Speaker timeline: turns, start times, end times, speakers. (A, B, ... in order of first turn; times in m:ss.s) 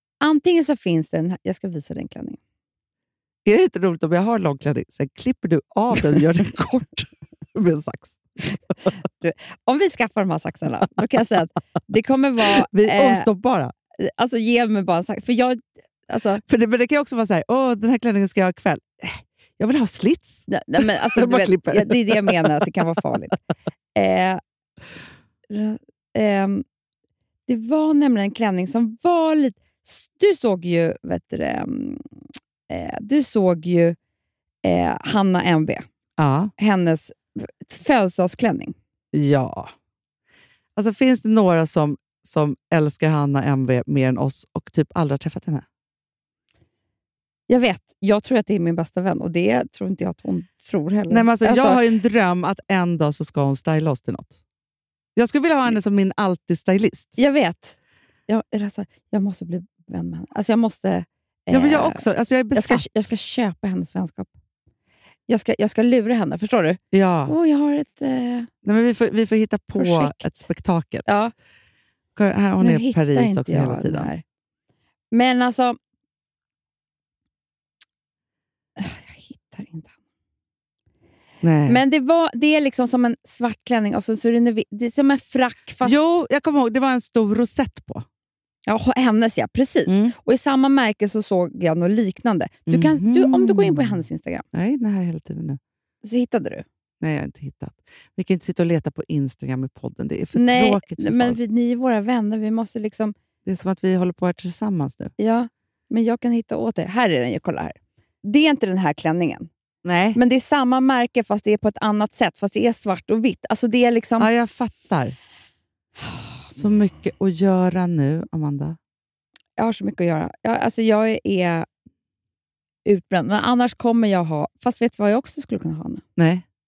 0:00.2-0:02.4 A
0:03.4-0:08.6 B
0:09.2-0:13.3 A
0:12.4-0:13.7 B
0:14.0-0:16.4 A
0:16.5-0:22.7 B
0:20.5-0:23.4 A
0:23.9-0:24.4 A
0:25.5-0:26.6 A
0:27.5-0:32.1 A
0:32.7-0:34.0 A
0:34.6-0:35.8 A
0:36.2-0:36.5 B
0:36.6-0:38.7 A
0:39.1-0:39.7 B
0:40.8-0:45.6 B
0:47.5-0:51.8 A
0:51.1-0:54.4 B
0:55.2-0:57.2 B
0:57.2-0:57.8 A
0:58.3-1:02.0 A
1:01.5-1:02.9 B
1:02.5-1:04.3 A
1:05.3-1:08.5 A
1:06.9-1:07.3 B
1:08.6-1:11.0 B
1:09.8-1:10.4 A
1:11.0-1:11.3 A
1:12.2-1:14.1 B
1:12.6-1:14.2 A
1:15.1-1:15.8 A
1:18.8-1:19.9 A
1:21.4-1:21.8 B
1:21.7-1:26.1 A
1:25.8-1:28.0 B
1:28.7-1:34.4 A
1:29.9-1:30.1 B
1:32.7-1:34.0 B
1:34.5-1:35.6 B
1:36.0-1:36.6 A
1:37.0-1:41.4 B
1:40.3-1:43.1 A
1:43.4-1:45.1 B
1:45.2-1:49.5 A
1:49.8-1:50.2 B
1:50.1-1:54.3 A
1:54.2-1:55.2 B
1:56.5-1:58.8 B
1:59.6-2:01.7 A
2:02.8-2:06.0 A
2:06.2-2:06.4 B